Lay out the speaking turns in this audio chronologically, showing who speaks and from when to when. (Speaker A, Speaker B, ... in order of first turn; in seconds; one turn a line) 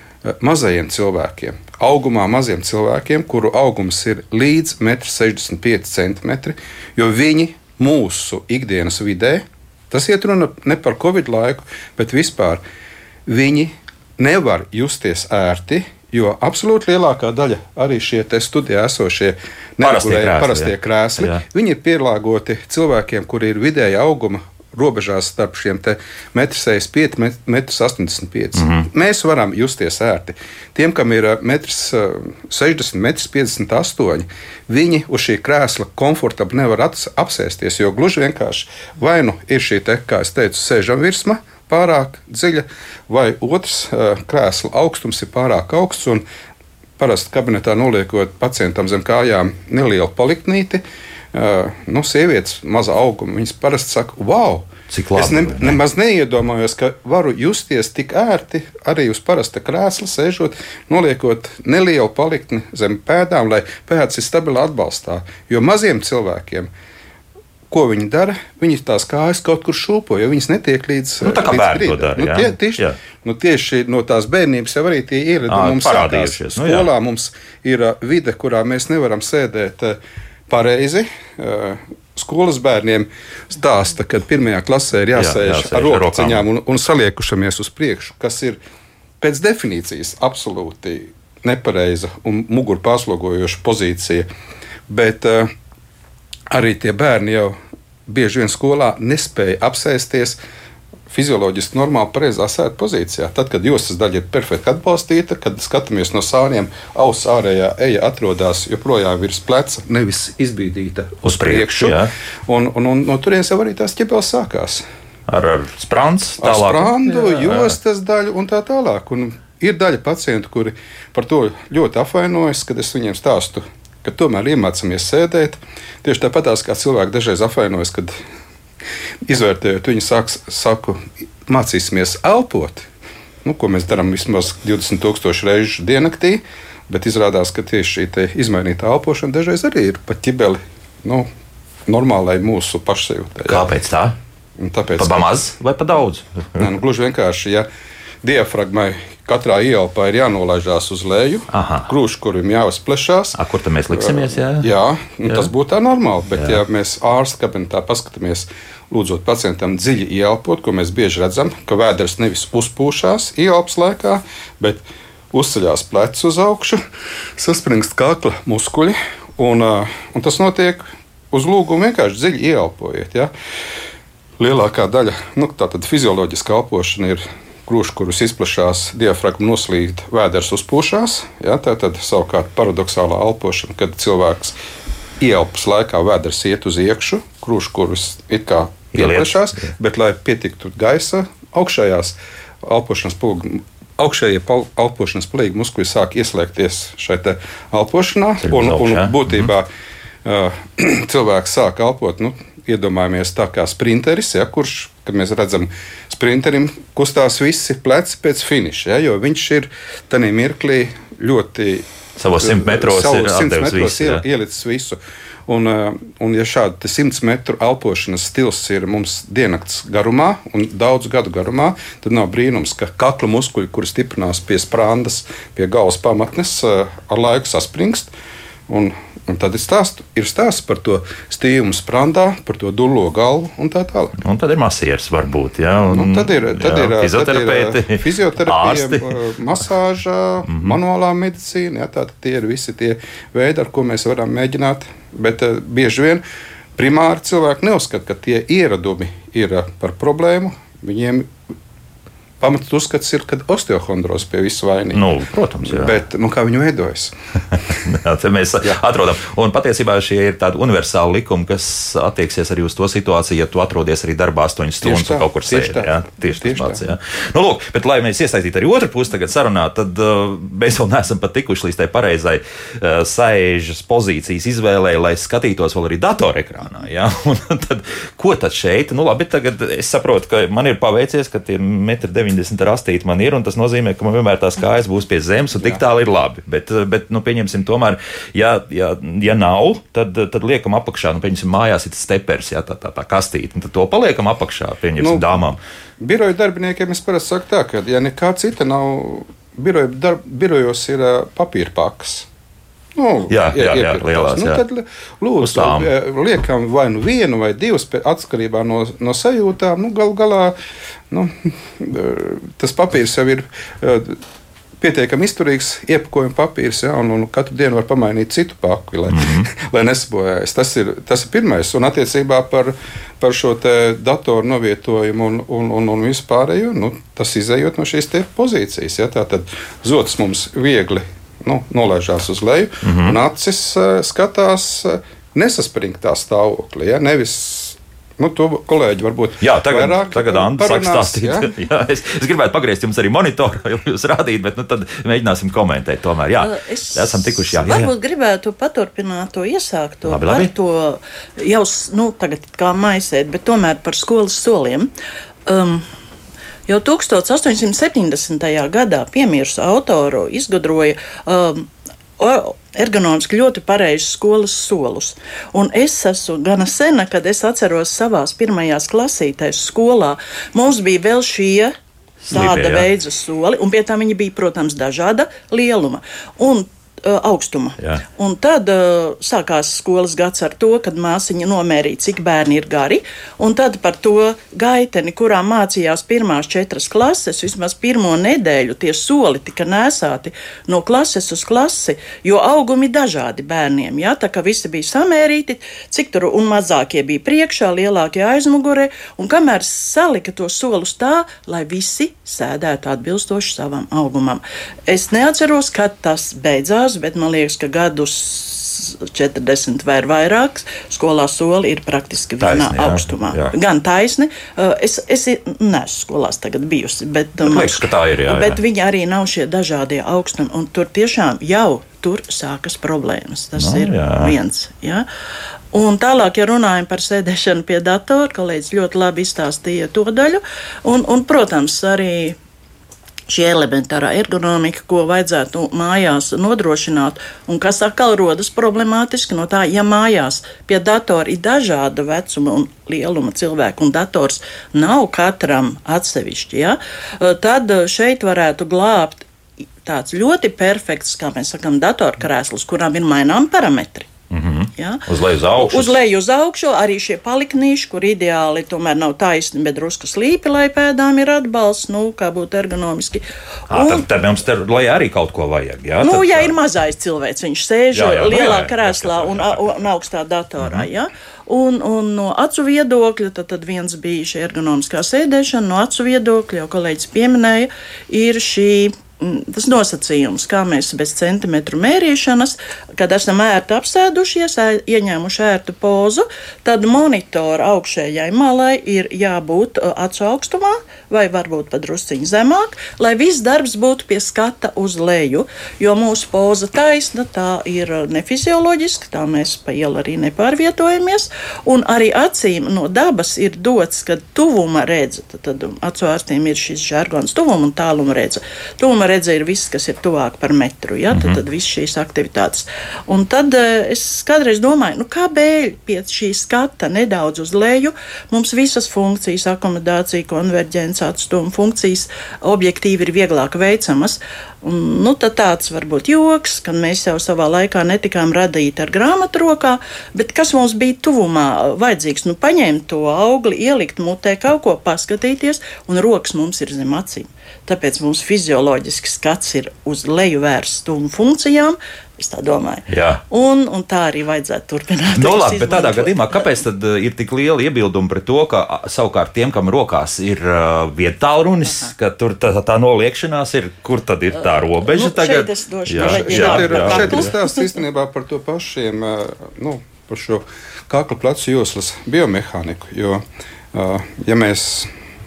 Speaker A: 0.3-12.6
Speaker A: 13.3-46.2
Speaker B: 19.8-21.4
Speaker B: 28.6-28.9
Speaker A: 47.0-66.7
Speaker B: 54.9-55.8
Speaker A: 67.7-88.6
Speaker B: 71.2-73.0
Speaker B: 75.5-76.9
Speaker B: 85.2-86.5
Speaker A: 89.2-94.3
Speaker A: 94.9-95.5
Speaker A: 96.5-97.5
Speaker A: 98.1-100.4
Speaker A: 101.1-114.8
Speaker B: 111.2-112.1
Speaker B: 115.3-117.7
Speaker A: 116.4-128.2
Speaker A: 129.3-132.9
Speaker A: 133.4-141.3
Speaker A: 141.9-143.7
Speaker B: 143.5-144.2
Speaker A: 144.6-145.3
Speaker B: 145.0-146.6
Speaker A: 146.6-147.7
Speaker A: 148.2-153.4
Speaker B: 151.5-151.9
Speaker B: 153.4-154.7
Speaker A: 153.9-166.8
Speaker A: 167.4-173.3
Speaker A: 174.4-184.6
Speaker A: 185.2-199.7
Speaker B: 188.9-189.7
Speaker B: 198.4-199.5
Speaker A: 200.2-211.9
Speaker B: 212.2-214.2
Speaker A: 212.4-228.1
Speaker A: 228.7-234.2
Speaker B: 234.2-239.2
Speaker A: 235.9-246.2
Speaker B: 240.5-240.8
Speaker A: 246.8-251.3
Speaker A: 252.4-255.1
Speaker B: 254.9-256.0
Speaker A: 255.6-257.1
Speaker B: 257.7-295.6
Speaker A: 264.8-266.9
Speaker A: 295.0-295.3
Speaker A: 296.0-302.3
Speaker A: 302.9-310.6
Speaker B: 303.3-304.6
Speaker B: 305.4-305.9
Speaker A: 311.1-314.2
Speaker A: 314.8-341.5
Speaker B: 319.1-319.5
Speaker B: 332.8-333.2
Speaker B: 339.4-347.9
Speaker C: 346.4-354.9
Speaker B: 350.1-350.5
Speaker C: 355.5-355.9
Speaker C: 356.7-371.7
Speaker C: 372.3-425.1
Speaker B: 372.3-372.9
Speaker B: 412.4-413.5
Speaker B: 417.4-418.6
Speaker B: 423.6-424.3
Speaker C: 425.7-432.4
Speaker C: 433.3-449.3
Speaker C: 449.8-454.1
Speaker B: 454.3-456.0
Speaker C: 454.8-464.1
Speaker B: 463.7-466.5
Speaker C: 466.0-546.5
Speaker B: 467.9-469.8
Speaker B: 470.6-470.9
Speaker B: 511.1-511.4
Speaker B: 542.9-543.2
Speaker B: 545.2-557.3
Speaker C: 554.4-557.8
Speaker A: 556.0-564.9